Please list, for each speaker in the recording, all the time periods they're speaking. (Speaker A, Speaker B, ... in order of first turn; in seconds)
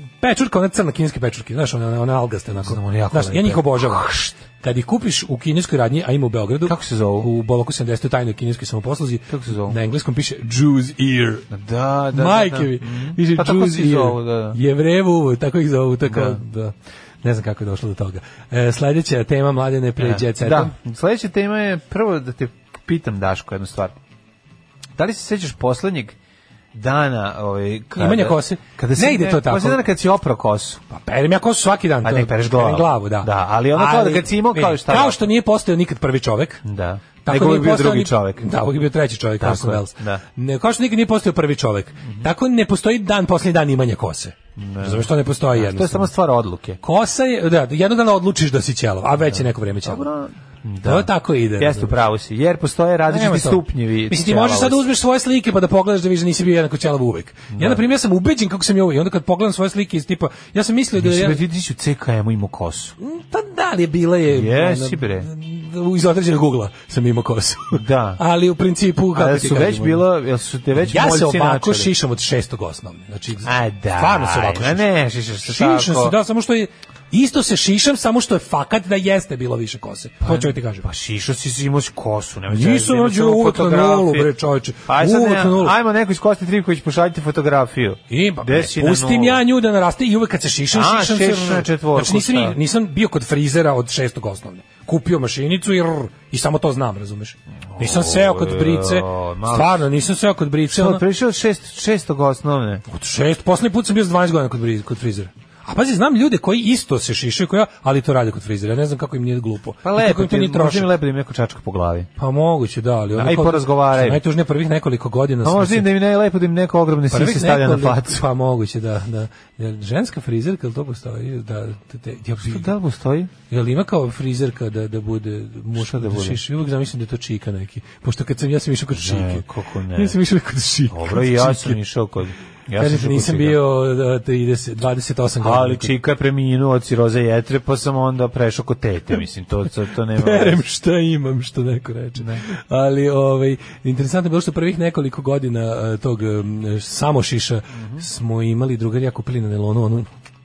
Speaker A: 0.2-4.1, 4.6-11.5, 12.1-20.7, 27.9-29.8, 30.9-36.6, 37.2-46.1, 46.8-50.1, 50.8-52.0, 53.1-61.4, 63.0-70.0, 70.8-74.9, 75.4-80.8, 82.5-85.7, 88.1-101.0, 102.9-110.9, 112.2-115.9, 117.1-122.7, 123.5-131.8, 132.8-135.9, 140.2-150.1
Speaker B: 2.6-4.4, 6.7-7.3, 9.3-9.8, 11.5-14.6, 16.1-16.4, 20.0-23.9, 25.0-26.1, 26.7-30.8, 32.0-35.2, 36.6-38.5, 39.4-40.2, 44.5-46.8, 49.2-54.8, 57.5-57.8, 60.9-63.0, 64.3-65.3, 67.7-68.2, 69.1-71.9, 73.4-76.2, 80.2-84.3, 84.8-89.4, 90.7-92.6, 97.7-99.8, 100.7-102.8, 109.8-112.1, 113.1-114.2, 115.4-118.2, 122.4-123.3, 125.7-126.4, 128.9-130.2, 130.9-133.6, 135.4-140.6, 142.2-142.5, 147.8-148.0